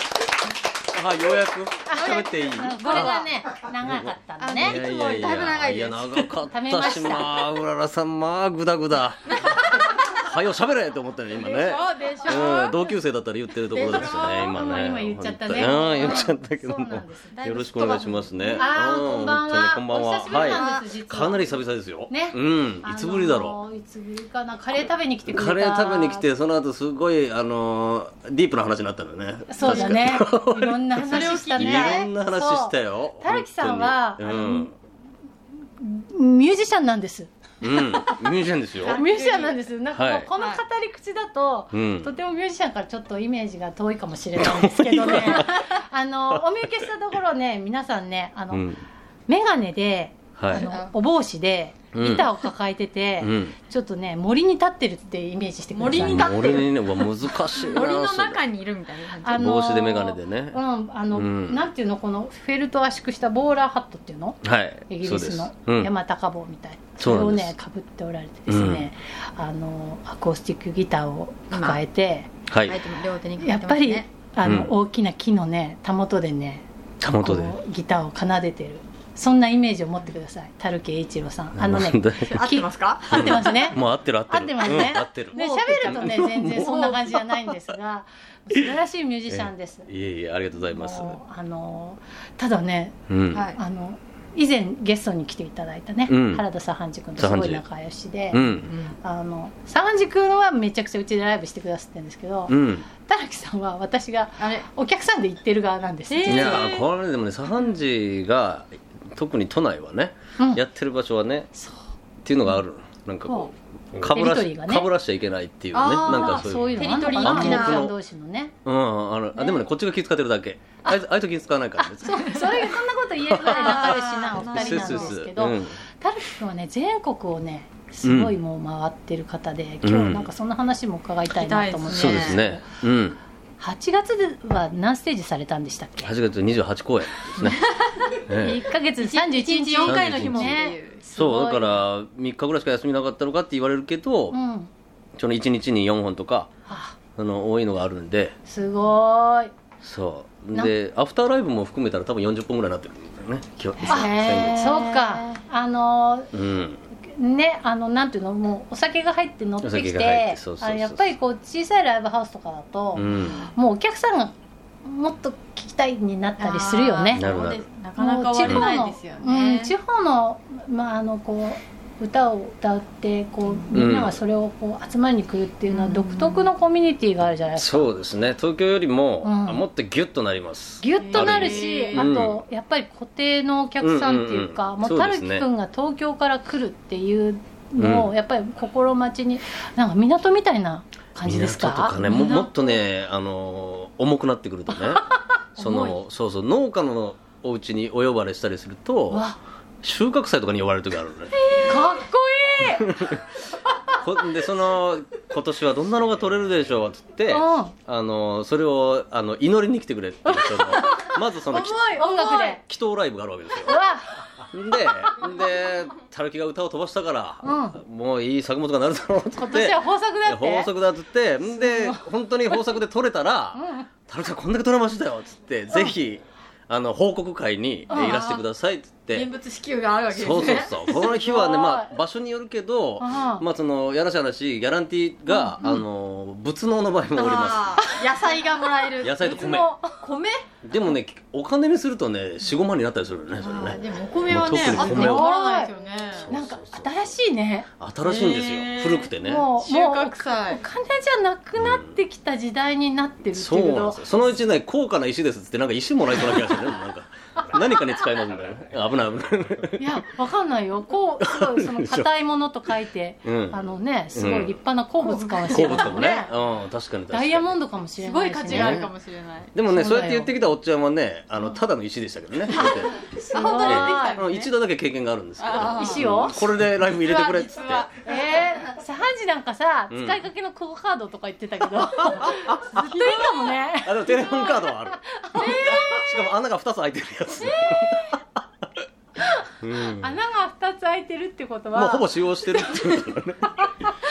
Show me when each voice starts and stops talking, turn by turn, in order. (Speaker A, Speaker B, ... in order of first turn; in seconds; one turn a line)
Speaker A: 0.9-3.3
Speaker B: 1.9-4.8
Speaker C: 2.0-3.3
Speaker A: 3.8-9.3
Speaker C: 4.4-6.3
Speaker B: 6.5-7.5
Speaker C: 9.3-10.1
Speaker A: 9.9-23.6
Speaker C: 11.3-12.8
Speaker B: 12.3-12.6
Speaker B: 13.8-17.4
Speaker C: 13.8-14.3
Speaker C: 16.0-16.3
Speaker C: 17.3-18.6
Speaker B: 18.6-26.3
Speaker C: 20.3-20.9
Speaker A: 25.3-34.7
Speaker B: 29.5-34.7
Speaker C: 29.6-30.1
Speaker C: 31.1-32.1
Speaker B: 35.8-37.3
Speaker A: 37.6-39.0
Speaker C: 38.8-39.6
Speaker B: 38.8-48.6
Speaker A: 39.9-40.3
Speaker C: 40.3-40.6
Speaker A: 41.7-42.1
Speaker A: 44.4-45.6
Speaker C: 45.0-45.6
Speaker A: 48.5-48.8
Speaker B: 49.3-56.6
Speaker A: 50.4-50.6
Speaker C: 50.5-50.9
Speaker A: 51.9-52.2
Speaker A: 53.2-53.5
Speaker C: 55.7-59.5
Speaker A: 55.9-58.4
Speaker B: 59.2-72.3
Speaker A: 59.3-60.6
Speaker A: 61.1-61.6
Speaker A: 64.4-65.9
Speaker A: 67.0-67.5
Speaker A: 68.5-68.9
Speaker C: 71.5-71.8
Speaker A: 72.5-72.8
Speaker C: 72.7-74.1
Speaker B: 73.4-76.6
Speaker A: 74.4-74.7
Speaker A: 77.0-77.5
Speaker B: 77.2-83.8
Speaker A: 81.5-82.4
Speaker C: 82.3-83.7
Speaker A: 83.1-87.3
Speaker B: 84.3-89.9
Speaker C: 84.7-86.9
Speaker A: 89.3-91.2
Speaker B: 90.7-93.0
Speaker A: 93.1-93.5
Speaker C: 93.3-93.6
Speaker B: 93.5-98.4
Speaker A: 96.1-96.4
Speaker A: 97.2-97.6
Speaker A: 98.3-98.7
Speaker C: 98.7-99.0
Speaker B: 99.0-106.7
Speaker A: 102.5-102.9
Speaker C: 104.4-104.7
Speaker C: 106.1-106.8
Speaker A: 106.3-111.5
Speaker A: 112.2-117.9
Speaker C: 113.2-113.5
Speaker B: 114.1-114.9
Speaker C: 115.7-117.9
Speaker B: 116.0-118.5
Speaker A: 118.6-122.7
Speaker B: 122.0-132.6
Speaker C: 122.1-122.5
Speaker A: 123.3-125.8
Speaker C: 123.4-125.2
Speaker A: 128.0-128.3
Speaker A: 129.8-130.2
Speaker C: 131.3-132.4
Speaker A: 131.9-133.2
Speaker B: 133.6-136.1
Speaker A: 136.0-137.6
Speaker C: 137.4-138.2
Speaker A: 138.3-138.6
Speaker B: 138.4-141.8
Speaker C: 139.0-141.0
Speaker A: 139.8-140.6
Speaker A: 141.2-144.4
Speaker B: 144.3-144.7
Speaker A: 145.2-146.5
Speaker B: 146.7-146.9
Speaker A: 147.1-148.3
Speaker B: 148.5-149.5
Speaker A: 149.8-154.7
Speaker C: 153.9-155.4
Speaker B: 153.9-156.3
Speaker A: 156.3-156.8
Speaker B: 157.0-167.2
Speaker A: 159.6-161.1
Speaker A: 163.0-163.5
Speaker C: 166.4-169.7
Speaker A: 167.1-167.6
Speaker B: 168.0-177.9
Speaker A: 173.7-174.2
Speaker C: 175.7-176.5
Speaker A: 177.6-182.4
Speaker B: 179.2-179.6
Speaker B: 180.8-192.6
Speaker C: 181.0-182.1
Speaker A: 183.8-185.4
Speaker A: 187.8-188.1
Speaker A: 191.2-195.1
Speaker C: 192.0-192.7
Speaker C: 195.6-196.0
Speaker A: 195.6-199.2
Speaker B: 199.1-199.4
Speaker A: 199.8-201.3
Speaker B: 201.6-202.9
Speaker A: 202.7-203.2
Speaker A: 204.0-212.0
Speaker B: 207.3-207.7
Speaker C: 211.5-212.6
Speaker B: 211.9-212.6
Speaker A: 212.6-213.8
Speaker B: 213.7-214.1
Speaker A: 214.5-229.3
Speaker B: 217.4-217.8
Speaker B: 219.3-220.7
Speaker B: 221.5-222.0
Speaker B: 223.5-223.9
Speaker B: 227.9-228.2
Speaker C: 227.9-228.4
Speaker C: 229.1-230.9
Speaker A: 230.1-237.9
Speaker B: 230.9-231.9
Speaker B: 233.0-233.4
Speaker C: 237.1-240.4
Speaker A: 239.0-239.7
Speaker B: 239.2-240.0
Speaker A: 240.6-245.3
Speaker C: 243.4-246.2
Speaker B: 244.5-245.7
Speaker A: 246.1-246.9
Speaker B: 246.3-247.7
Speaker A: 247.8-249.4
Speaker C: 248.0-250.6
Speaker B: 249.2-254.3
Speaker A: 251.6-251.9
Speaker A: 253.3-259.8
Speaker B: 259.8-266.3
Speaker A: 261.2-262.1
Speaker A: 263.2-264.6
Speaker C: 265.0-266.2
Speaker A: 265.5-267.5
Speaker B: 267.1-268.8
Speaker C: 268.0-269.5
Speaker A: 268.5-268.9
Speaker A: 269.5-273.0
Speaker B: 269.6-270.3
Speaker C: 272.5-274.5
Speaker B: 273.1-274.2
Speaker A: 273.6-277.9
Speaker C: 275.4-278.5
Speaker B: 275.8-276.4
Speaker B: 278.0-286.3
Speaker A: 279.9-280.2
Speaker A: 282.0-282.8
Speaker C: 282.8-283.3
Speaker A: 283.8-288.1
Speaker B: 287.4-288.1
Speaker A: 289.6-290.1
Speaker B: 290.0-292.1
Speaker A: 291.7-293.5